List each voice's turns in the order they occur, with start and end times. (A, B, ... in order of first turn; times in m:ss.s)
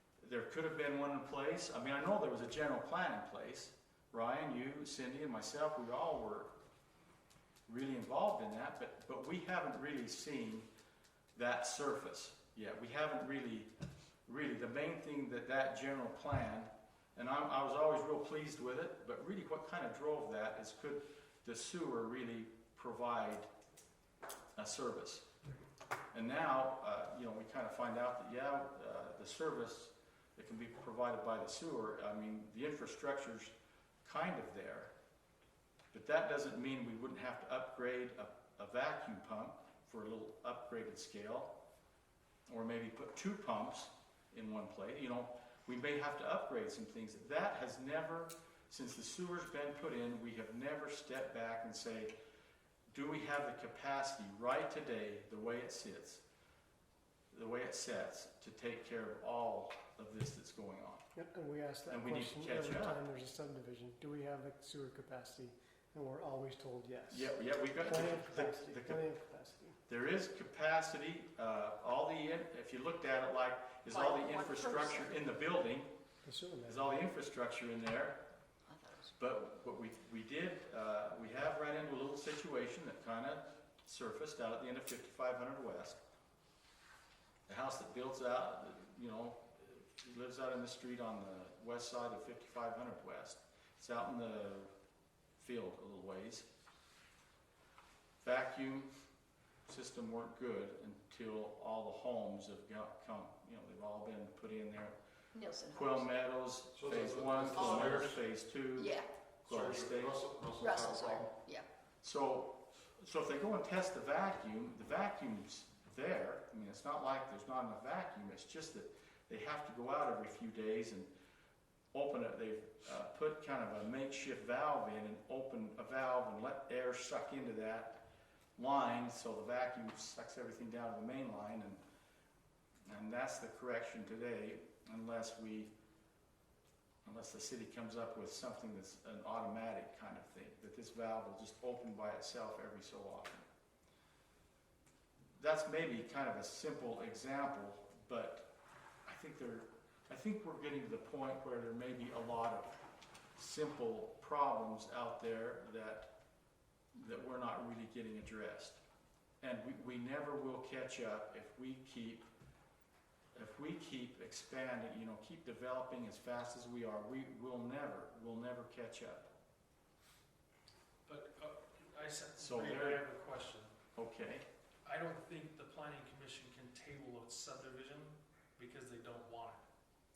0:00.2-0:06.5 A
0:07.7-0:10.7 A
0:11.4-0:13.7 A
0:14.3-0:23.5 A
0:24.6-0:25.3 A
0:26.1-0:33.5 A
0:34.0-0:34.9 A
0:35.9-0:41.5 A
0:42.5-0:52.1 A
0:52.9-0:56.2 A
0:57.3-1:01.0 A
1:01.1-1:09.8 B
1:01.9-1:03.0 A
1:07.1-1:09.1 A
1:09.9-1:15.9 A
1:13.9-1:15.2 C
1:16.2-1:17.0 B
1:16.6-1:18.2 A
1:18.7-1:19.1 C
1:19.2-1:26.0 A
1:27.5-1:34.7 A
1:35.4-1:36.4 A
1:38.2-1:38.9 A
1:39.7-1:45.0 A
1:45.4-1:46.1 C
1:45.7-1:50.2 A
1:46.7-1:48.2 D
1:47.6-1:48.0 C
1:48.8-1:49.1 C
1:49.4-1:51.3 D
1:50.6-1:51.7 C
1:52.0-2:01.1 A
2:01.9-2:08.0 A
2:08.6-2:11.8 A
2:12.9-2:15.7 A
2:17.0-2:23.5 A
2:25.4-2:28.5 A
2:29.0-2:32.8 A
2:33.4-2:36.1 A
2:37.0-2:38.8 A
2:39.4-2:42.3 A
2:43.4-2:49.3 A
2:51.1-2:53.8 E
2:52.4-2:53.0 A
2:54.0-2:54.4 A
2:54.8-2:59.6 E